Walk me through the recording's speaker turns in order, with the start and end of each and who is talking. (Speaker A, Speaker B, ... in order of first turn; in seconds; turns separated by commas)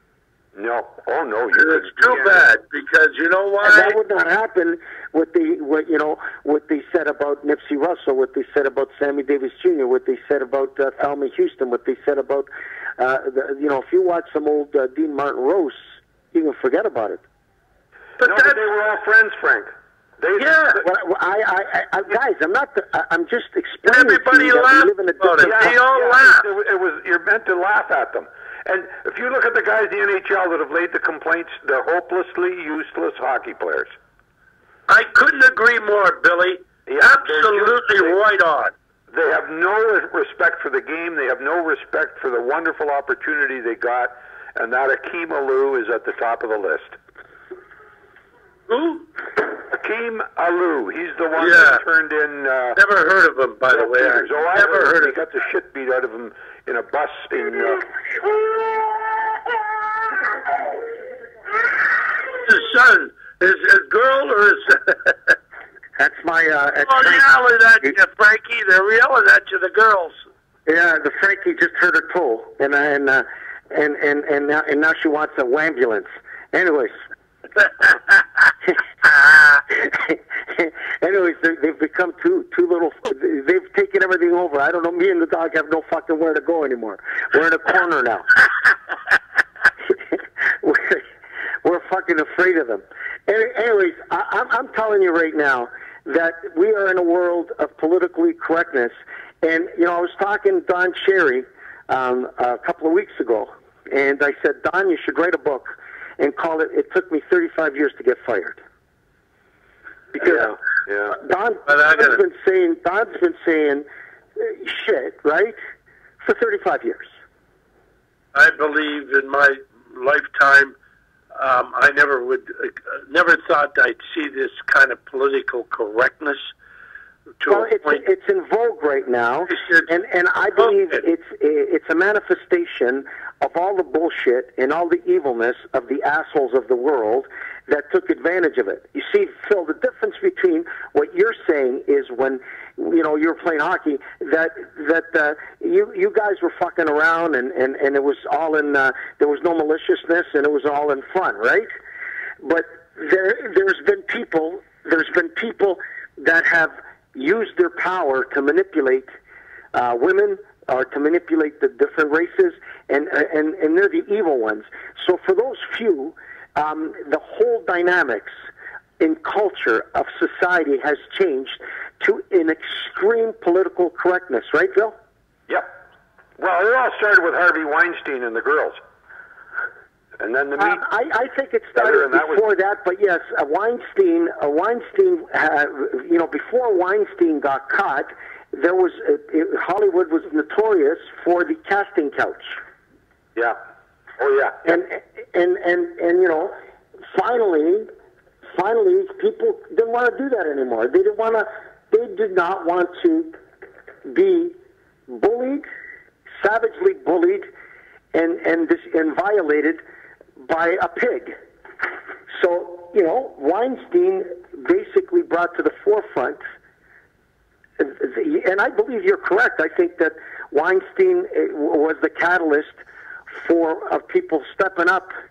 Speaker A: 0.5-2.5, Speaker B: 1.6-4.0, Speaker C: 3.6-17.2, Speaker B: 18.2-18.7, Speaker A: 18.2-20.9, Speaker B: 20.4-20.8, Speaker C: 20.8-25.7, Speaker B: 23.8-26.4, Speaker A: 25.4-33.9, Speaker B: 34.9-38.7, Speaker A: 36.9-38.2, Speaker A: 39.1-47.0, Speaker B: 48.7-49.1, Speaker A: 49.7-52.8, Speaker B: 51.4-51.8, Speaker B: 52.7-55.2, Speaker A: 53.7-57.9, Speaker B: 62.3-65.4, Speaker C: 66.0-67.3, Speaker B: 66.8-70.2, Speaker C: 70.7-76.9, Speaker C: 78.7-88.3, Speaker C: 89.9-91.0, Speaker C: 91.6-108.6, Speaker C: 110.1-113.8, Speaker A: 110.2-111.2, Speaker B: 111.7-112.2, Speaker C: 114.4-115.5, Speaker C: 116.2-117.1, Speaker B: 118.3-120.7, Speaker B: 121.3-126.5, Speaker B: 127.4-128.0, Speaker C: 127.5-151.7, Speaker B: 129.5-129.9, Speaker C: 152.4-159.0, Speaker C: 159.7-168.3, Speaker C: 169.0-174.9, Speaker A: 175.5-175.7, Speaker A: 176.4-178.8, Speaker A: 180.2-180.8, Speaker C: 180.6-192.6, Speaker A: 181.7-182.4, Speaker A: 194.2-194.6, Speaker C: 194.6-196.5, Speaker C: 197.1-197.9, Speaker C: 198.5-203.3, Speaker C: 204.0-204.5, Speaker C: 205.1-205.6, Speaker C: 206.4-207.5, Speaker C: 208.1-209.8, Speaker C: 210.4-211.3, Speaker C: 212.3-216.4, Speaker C: 217.8-222.8, Speaker C: 223.3-225.1